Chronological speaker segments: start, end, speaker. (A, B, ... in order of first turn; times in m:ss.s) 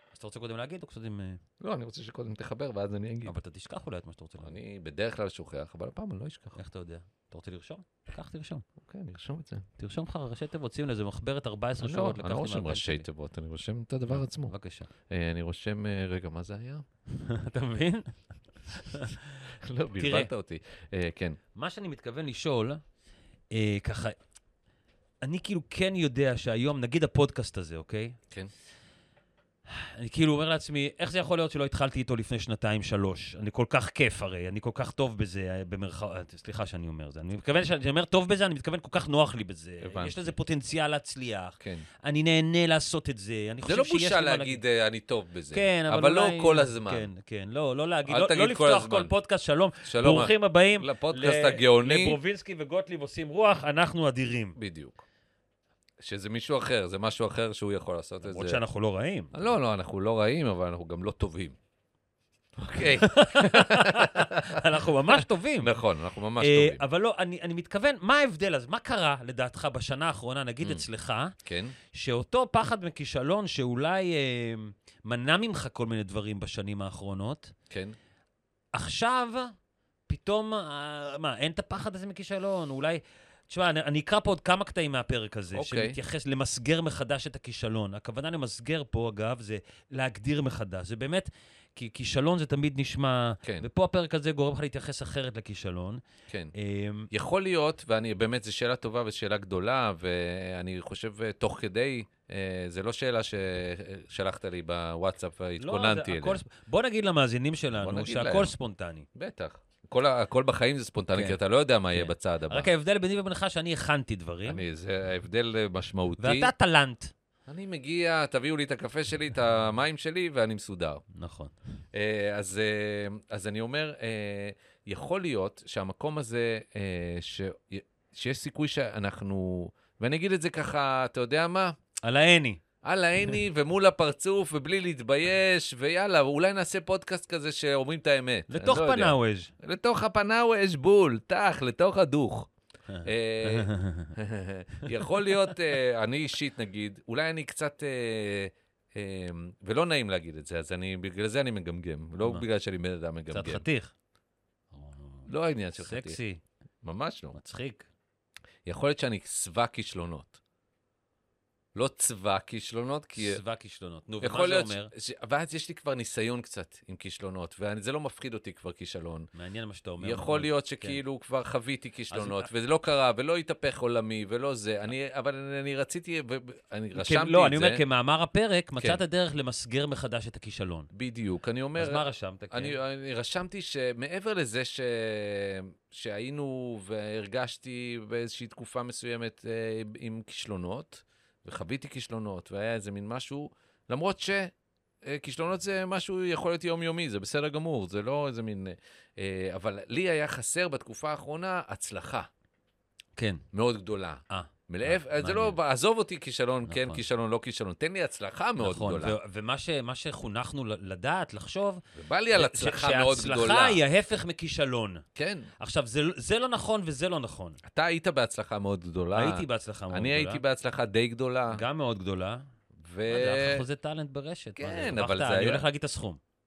0:00.1-0:01.4 A
0:01.6-0:03.3 B
0:03.2-0:04.6 A
0:04.4-0:06.6 B
0:06.6-0:08.6 A
0:08.8-0:09.6 B
0:09.8-0:13.0 A
0:11.8-0:14.5 B
0:14.1-0:14.9 A
0:15.1-0:16.8 B
0:17.1-0:19.3 A
0:19.5-0:21.4 B
0:20.0-0:20.3 A
0:21.5-0:22.8 A
0:23.5-0:24.2 A
0:25.2-0:28.2 A
0:29.7-0:44.6 A
0:39.8-0:40.3 B
0:41.6-0:41.8 B
0:43.6-0:47.1 B
0:45.5-0:54.6 A
0:48.0-0:49.1 B
0:49.8-0:52.2 B
0:54.6-0:55.0 B
0:56.0-0:58.6 B
0:58.2-0:59.4 A
0:59.3-1:01.6 B
1:02.6-1:04.6 B
1:02.8-1:05.7 A
1:05.1-1:06.8 B
1:06.4-1:11.3 A
1:11.4-1:11.7 B
1:11.9-1:17.5 A
1:17.7-1:17.9 B
1:18.7-1:19.5 A
1:20.1-1:36.0 A
1:25.5-1:26.0 B
1:36.5-1:37.1 A
1:37.1-1:46.4 B
1:45.6-1:49.1 A
1:47.8-1:48.5 B
1:49.1-1:52.7 B
1:51.1-1:51.4 A
1:51.9-1:54.6 A
1:54.4-1:56.5 B
1:56.2-1:57.1 A
1:57.5-2:01.0 B
2:01.1-2:01.5 A
2:01.9-2:11.7 B
2:12.0-2:12.6 A
2:12.8-2:22.5 B
2:18.5-2:19.5 A
2:22.9-2:24.1 A
2:23.0-2:33.6 B
2:33.3-2:33.9 A
2:34.7-2:36.4 A
2:35.3-2:36.2 B
2:36.8-2:37.4 B
2:37.3-2:37.9 A
2:38.6-2:40.4 B
2:41.7-2:43.4 B
2:43.2-2:44.9 A
2:44.2-2:49.3 B
2:49.3-2:51.0 A
2:50.0-2:57.8 B
2:52.1-2:52.5 A
2:56.9-3:00.9 A
3:00.9-3:22.3 B
3:01.8-3:02.8 A
3:23.2-3:23.4 A
3:23.5-3:29.2 B
3:24.3-3:25.6 A
3:26.7-3:27.0 A
3:28.6-3:31.8 A
3:31.9-3:33.8 B
3:32.3-3:35.0 A
3:35.2-3:35.5 B
3:35.6-3:37.6 A
3:37.6-3:41.6 B
3:39.1-3:40.4 A
3:41.5-3:42.4 A
3:42.8-3:43.6 B
3:43.1-3:46.2 A
3:44.6-3:45.6 B